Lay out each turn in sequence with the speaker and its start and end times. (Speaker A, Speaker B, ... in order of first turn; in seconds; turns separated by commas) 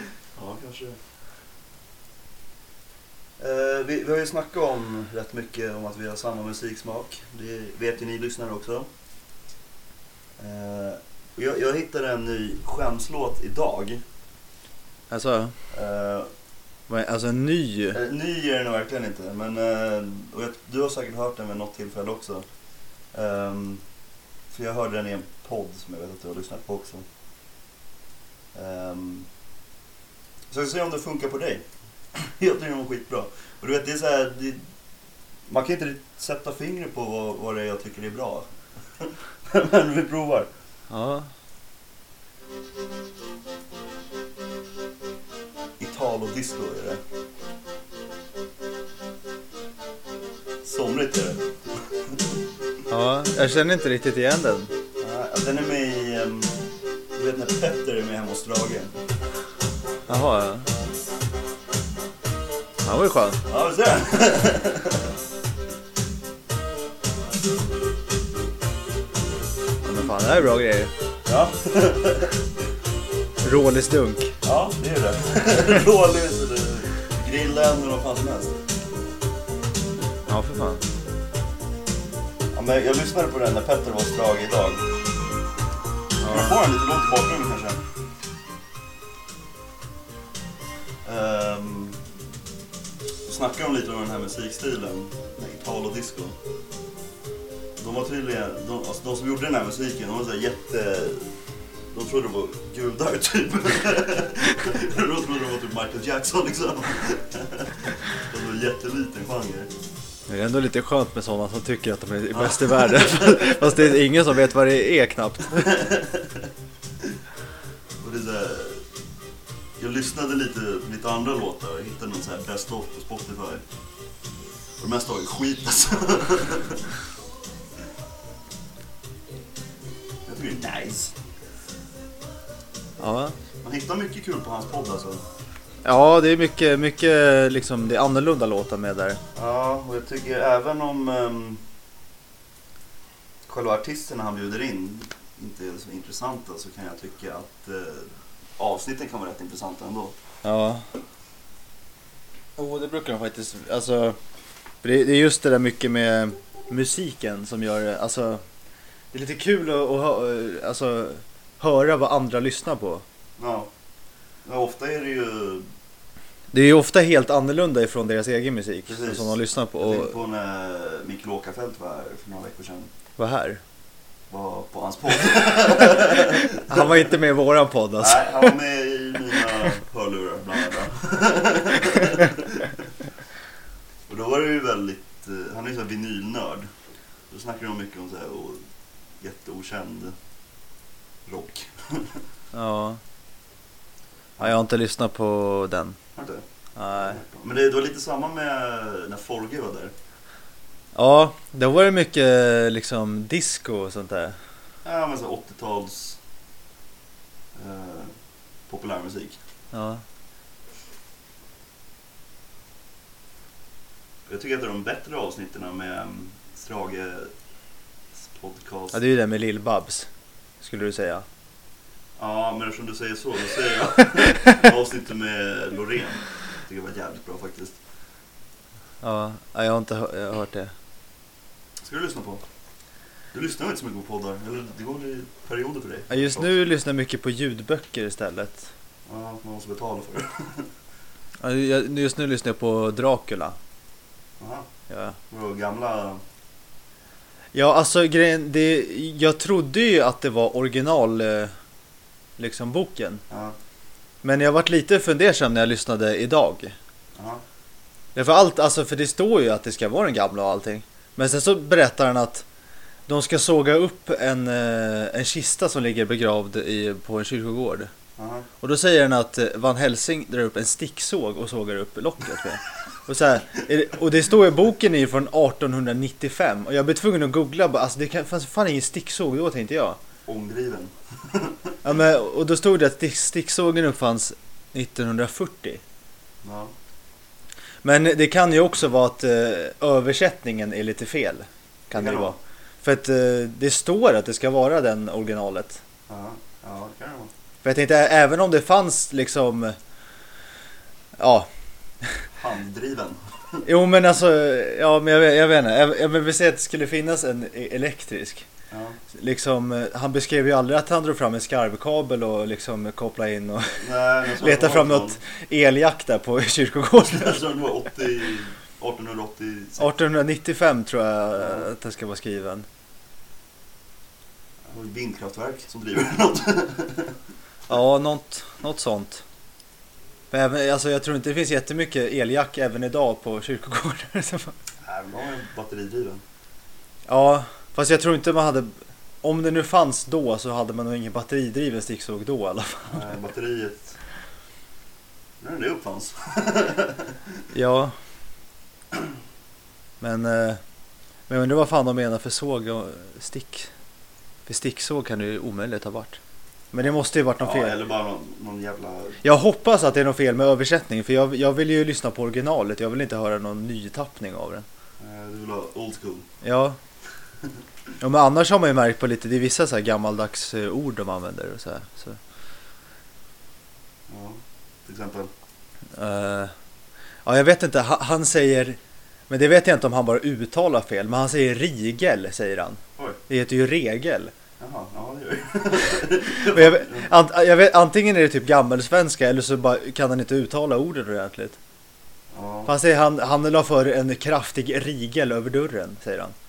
Speaker A: 0.4-1.0, Speaker A: 3.4-8.9, Speaker A: 10.4-14.0, Speaker B: 15.1-15.5, Speaker A: 15.7-16.3, Speaker B: 16.9-18.0, Speaker A: 17.9-22.5, Speaker A: 23.1-23.8, Speaker A: 24.5-27.1, Speaker A: 28.5-29.3, Speaker A: 30.5-31.6, Speaker A: 32.1-34.6, Speaker A: 35.5-40.5, Speaker B: 40.9-41.3, Speaker A: 45.8-47.0, Speaker A: 50.6-52.2, Speaker B: 52.9-54.7, Speaker A: 55.0-56.5, Speaker A: 57.1-59.0, Speaker B: 60.1-60.7, Speaker B: 62.8-63.4, Speaker A: 63.5-65.1, Speaker B: 69.8-70.9, Speaker A: 71.3-72.4, Speaker B: 73.4-74.3, Speaker A: 74.4-78.6, Speaker B: 80.3-80.8, Speaker A: 82.5-84.9, Speaker B: 86.2-86.6, Speaker A: 86.2-87.8, Speaker A: 91.0-92.0, Speaker A: 93.3-96.4, Speaker A: 97.8-101.3, Speaker A: 101.9-109.7, Speaker B: 110.3-115.7, Speaker A: 112.3-113.9, Speaker A: 115.6-116.5, Speaker A: 118.0-118.8, Speaker A: 119.8-123.6, Speaker A: 124.8-126.8, Speaker A: 130.3-131.1, Speaker B: 133.0-133.4, Speaker A: 133.6-135.2, Speaker B: 135.8-139.2, Speaker A: 139.3-141.6, Speaker A: 143.5-150.2, Speaker B: 150.4-150.8, Speaker B: 152.6-154.2, Speaker B: 154.8-158.4, Speaker B: 159.1-163.0, Speaker A: 163.4-163.7, Speaker A: 164.4-165.7, Speaker B: 166.5-170.2, Speaker A: 168.9-172.9, Speaker B: 173.2-173.6, Speaker A: 174.3-177.1, Speaker B: 176.6-178.6, Speaker A: 178.0-182.8, Speaker A: 184.1-186.7, Speaker A: 187.3-188.6, Speaker A: 189.2-190.2, Speaker A: 191.3-192.2, Speaker B: 192.5-193.0, Speaker B: 194.4-196.0, Speaker A: 196.2-196.4, Speaker B: 196.8-197.2, Speaker A: 196.9-199.9, Speaker B: 200.9-204.4, Speaker A: 204.8-206.2, Speaker A: 207.6-208.1, Speaker A: 208.7-209.4, Speaker B: 209.7-210.0, Speaker A: 214.3-217.3, Speaker A: 218.2-219.0, Speaker B: 218.9-220.1, Speaker B: 220.6-221.2, Speaker A: 222.2-227.8, Speaker B: 229.0-230.7, Speaker A: 231.8-232.4, Speaker A: 233.3-236.6, Speaker B: 236.1-238.7, Speaker A: 239.1-240.7, Speaker B: 241.4-243.6, Speaker A: 244.4-244.7, Speaker B: 244.9-245.2, Speaker A: 245.3-246.2, Speaker B: 247.5-251.5, Speaker B: 252.4-253.2, Speaker A: 253.3-253.6, Speaker B: 254.2-256.8, Speaker A: 257.2-257.4, Speaker B: 258.1-262.4, Speaker B: 263.1-267.9, Speaker A: 268.2-268.5, Speaker B: 268.6-280.0, Speaker A: 280.3-281.7, Speaker B: 281.8-285.8, Speaker A: 286.4-286.7, Speaker B: 287.8-295.8, Speaker A: 291.9-292.4, Speaker A: 296.1-297.3, Speaker B: 297.6-299.8, Speaker B: 301.2-301.5, Speaker A: 302.3-303.6, Speaker B: 303.6-308.5, Speaker A: 308.7-309.0, Speaker B: 309.1-317.5, Speaker A: 313.7-315.2, Speaker A: 317.0-319.9, Speaker B: 319.8-322.7, Speaker A: 321.4-321.7, Speaker A: 324.7-327.2, Speaker B: 327.7-329.2, Speaker B: 330.3-334.6, Speaker A: 334.8-336.2, Speaker B: 337.1-343.1, Speaker A: 342.9-344.0, Speaker A: 345.4-347.3, Speaker B: 347.5-347.9, Speaker B: 350.0-350.6, Speaker B: 351.3-353.7, Speaker B: 354.5-356.2, Speaker B: 356.7-357.8, Speaker A: 357.4-359.2, Speaker B: 359.2-364.6, Speaker A: 365.0-366.3, Speaker B: 366.4-366.8, Speaker B: 368.0-372.2, Speaker A: 374.1-375.3, Speaker B: 375.9-376.5, Speaker B: 377.2-378.8, Speaker B: 379.3-384.3, Speaker A: 384.6-387.1, Speaker B: 386.4-391.6, Speaker A: 392.3-392.7, Speaker B: 392.7-396.4